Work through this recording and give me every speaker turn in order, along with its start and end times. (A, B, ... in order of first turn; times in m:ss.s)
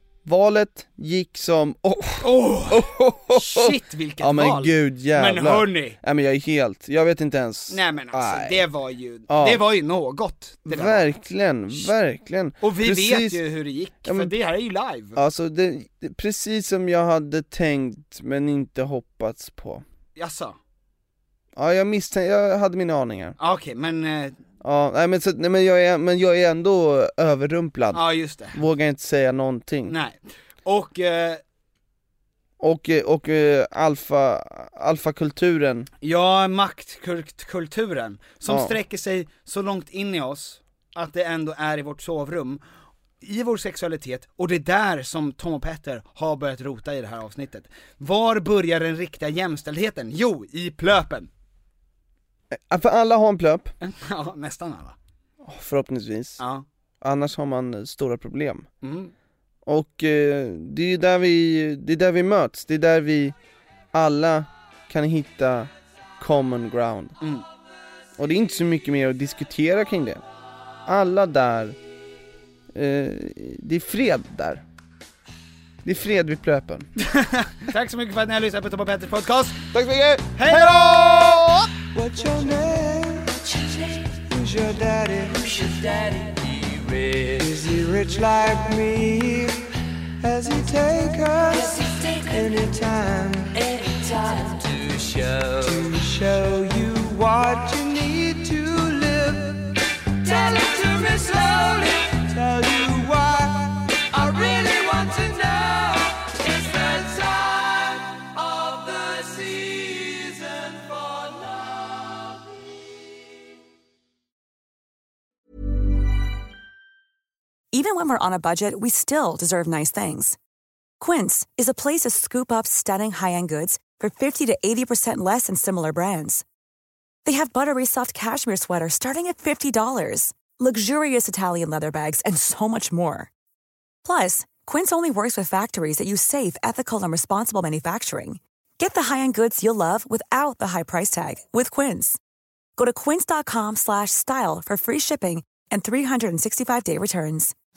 0:00.2-0:08.6 A
0:02.2-0:06.0 B
0:07.7-0:11.1 B
0:09.3-0:09.6 A
0:10.6-0:13.4 A
0:12.6-0:15.2 B
0:14.0-0:14.3 A
0:15.2-0:19.8 A
0:20.2-0:20.6 B
0:21.6-0:23.4 A
0:23.4-0:24.4 B
0:24.6-0:29.9 A
0:27.9-0:28.6 B
0:29.9-0:31.4 B
0:32.6-0:35.9 A
0:36.0-0:42.6 B
0:38.5-0:38.7 A
0:43.2-0:51.3 B
0:52.5-0:53.7 A
0:53.8-0:55.0 B
0:55.4-0:56.4 A
0:56.4-0:56.6 B
0:57.0-0:58.7 A
0:58.8-0:59.1 B
0:59.6-1:03.4 A
1:03.9-1:07.2 A
1:07.2-1:07.4 B
1:08.2-1:10.2 A
1:10.8-1:11.8 A
1:12.7-1:14.6 A
1:15.8-1:16.9 A
1:17.0-1:19.6 B
1:19.7-1:21.7 A
1:20.3-1:21.5 B
1:21.9-1:29.7 C
1:30.2-1:52.2 C
1:57.7-2:00.4 D
2:01.0-2:06.4 D
2:07.2-2:13.3 D
2:14.0-2:22.2 D
2:22.8-2:27.5 D